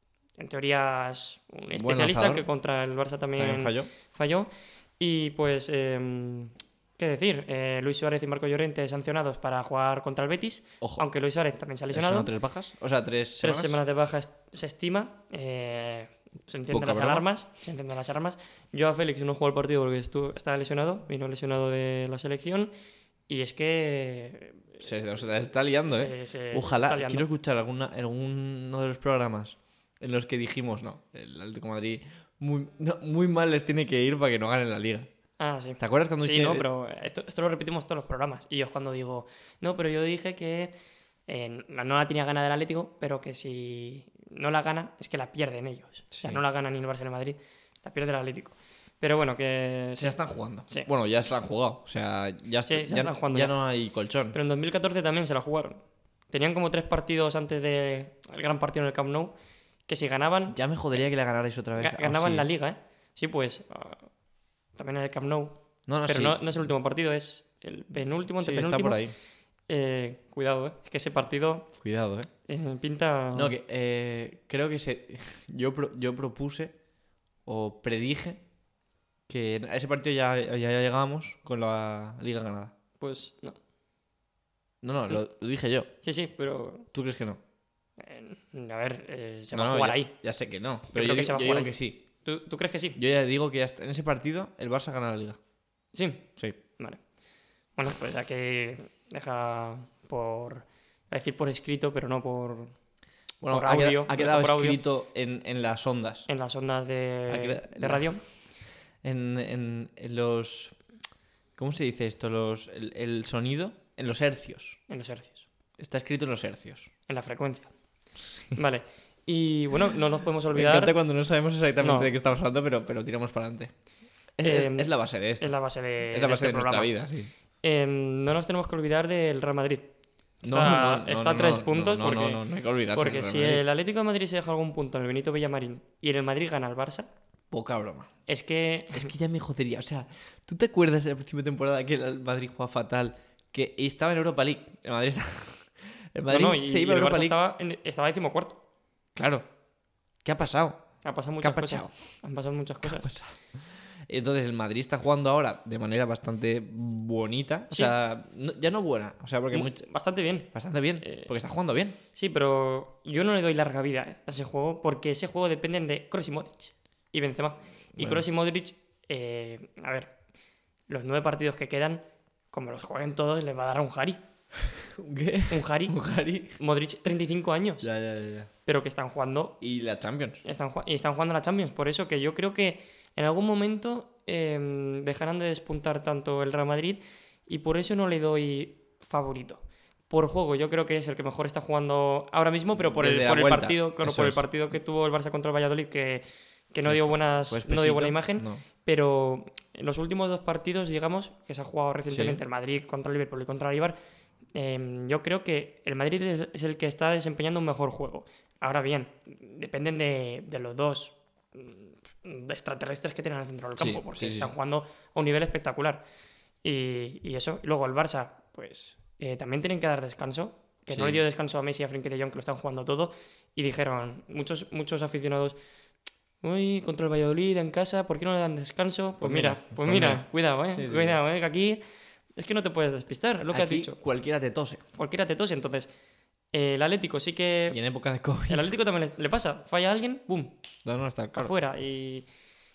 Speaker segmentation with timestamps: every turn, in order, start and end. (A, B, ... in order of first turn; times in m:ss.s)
0:00.4-0:12.3 A
0:01.7-0:02.5 B
0:03.4-0:03.9 B
0:11.9-0:13.8 B
0:13.4-0:22.7 A
0:16.7-0:17.3 B
0:23.3-0:24.8 A
0:24.8-0:35.1 B
0:25.9-0:27.3 A
0:35.4-0:40.7 A
0:35.8-0:36.6 B
0:41.3-0:50.2 A
0:46.1-0:46.4 B
0:50.0-0:54.4 B
0:52.7-0:53.6 A
0:54.3-0:59.3 A
0:59.9-1:00.6 A
1:00.5-1:02.5 B
1:01.8-1:04.1 A
1:04.8-1:09.0 A
1:05.9-1:06.4 B
1:08.4-1:09.1 B
1:09.7-1:11.7 A
1:11.8-1:12.3 B
1:12.5-1:13.5 A
1:13.3-1:16.7 B
1:17.4-1:18.4 B
1:19.3-1:22.7 B
1:23.0-1:23.6 A
1:24.8-1:25.9 B
1:26.0-1:26.9 A
1:26.9-1:27.4 B
1:28.0-1:30.1 A
1:29.5-1:32.0 B
1:30.9-1:31.7 A
1:32.2-1:33.0 A
1:33.0-1:35.4 B
1:35.9-1:36.3 A
1:37.8-1:42.7 A
1:43.4-1:46.3 B
1:43.5-1:44.8 A
1:46.3-1:48.2 A
1:47.3-1:48.1 B
1:49.0-1:50.8 B
1:51.6-1:54.8 B
1:54.9-1:55.5 A
1:55.8-1:56.9 B
1:57.1-1:57.7 A
1:58.6-2:00.9 A
2:00.5-2:03.7 B
2:01.8-2:02.1 A
2:04.4-2:05.5 B
2:04.4-2:06.9 A
2:06.1-2:07.3 B
2:07.6-2:09.9 A
2:10.4-2:13.6 B
2:10.5-2:17.1 A
2:17.5-2:18.1 B
2:18.3-2:19.1 A
2:18.9-2:27.4 B
2:26.3-2:28.6 A
2:29.2-2:29.4 B
2:30.2-2:30.8 B
2:31.0-2:33.1 A
2:31.4-2:31.9 B
2:32.8-2:33.4 B
2:34.1-2:39.8 B
2:37.7-2:38.0 A
2:39.5-2:40.5 A
2:40.5-2:42.0 B
2:41.0-2:41.3 A
2:42.2-2:50.1 A
2:48.0-2:48.2 B
2:50.9-2:54.2 A
2:54.6-2:56.6 B
2:55.5-2:56.0 A
2:56.6-2:57.9 A
2:57.8-2:58.5 B
2:58.6-2:59.6 A
2:59.6-3:00.4 B
3:00.4-3:24.0 A
3:12.8-3:14.4 B
3:16.8-3:18.6 B
3:22.1-3:22.4 B
3:24.5-3:36.0 A
3:33.8-3:34.5 B
3:36.6-3:45.6 A
3:40.9-3:41.2 B
3:46.4-3:51.8 A
3:49.2-3:51.2 B
3:52.4-3:54.0 A
3:53.5-3:54.8 B
3:55.0-3:55.9 A
3:56.5-3:57.8 A
3:57.7-3:58.7 B
3:58.5-4:00.6 A
4:00.8-4:01.5 B
4:01.4-4:02.3 A